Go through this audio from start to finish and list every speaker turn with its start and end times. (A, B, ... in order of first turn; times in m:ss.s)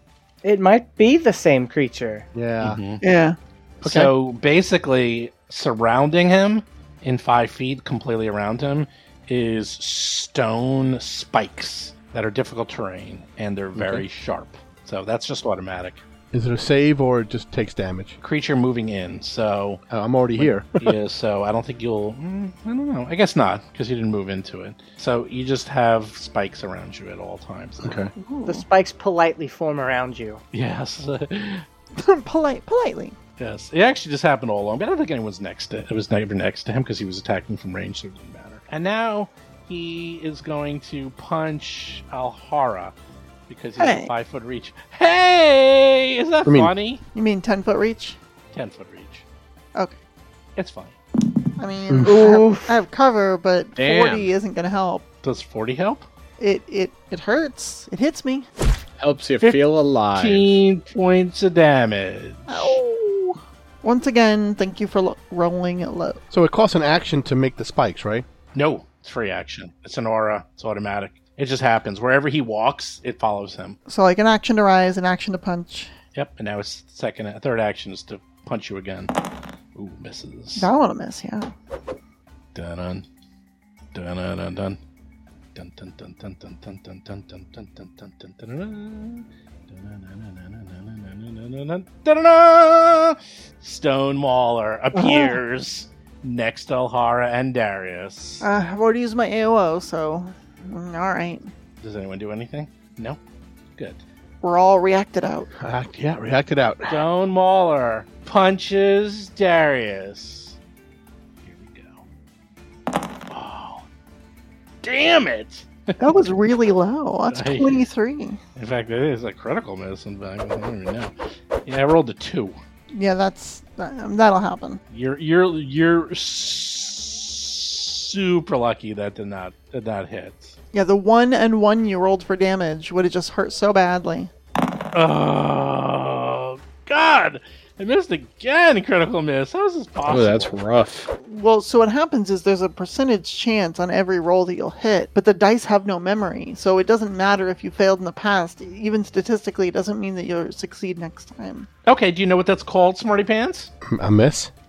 0:00.4-0:02.3 A
0:02.3-0:02.8 B
0:02.6-0:03.0 C
0:03.0-0:03.4 D
0:03.8-0:16.0 C
0:03.8-0:04.1 B
0:13.8-0:14.0 B
0:16.3-0:18.2 B
0:18.2-0:19.8 C
0:19.9-0:20.9 B
0:20.4-0:28.0 C
0:27.8-0:28.1 B
0:28.2-0:28.6 D
0:28.4-0:30.4 A
0:30.5-0:31.6 C
0:32.0-0:33.2 D
0:33.4-0:42.9 C
0:43.5-0:47.0 C
0:43.8-0:44.1 D
0:46.4-0:46.7 B
0:47.1-0:48.2 D
0:48.5-0:49.2 C
0:50.6-0:51.0 C
0:51.6-0:55.0 D
0:52.0-0:52.7 A
0:53.8-0:54.3 E
0:55.2-0:56.1 C
0:56.4-0:58.5 D
0:59.0-1:00.6 E
1:00.1-1:02.8 C
1:02.5-1:06.2 D
1:06.3-1:08.2 B
1:08.5-1:13.8 C
1:13.9-1:15.9 D
1:16.1-1:19.1 C
1:19.7-1:20.7 C
1:20.6-1:21.5 D
1:22.5-1:23.0 C
1:23.9-1:24.8 C
1:25.5-1:38.4 C
1:34.9-1:35.4 D
1:38.4-1:41.5 D
1:41.8-1:43.2 C
1:43.8-1:44.0 C
1:44.4-1:45.5 D
1:45.6-1:47.0 B
1:46.9-1:50.6 C
1:51.4-1:52.0 C
1:53.3-1:53.8 C
1:54.8-1:56.2 C
1:56.0-1:58.4 D
1:57.3-1:57.8 C
1:58.6-2:01.1 C
2:01.6-2:02.6 C
2:02.9-2:04.8 D
2:04.9-2:10.6 C
2:10.7-2:14.3 D
2:14.9-2:20.5 C
2:20.0-2:21.1 E
2:21.2-2:31.7 D
2:31.8-2:33.7 C
2:33.8-2:34.5 B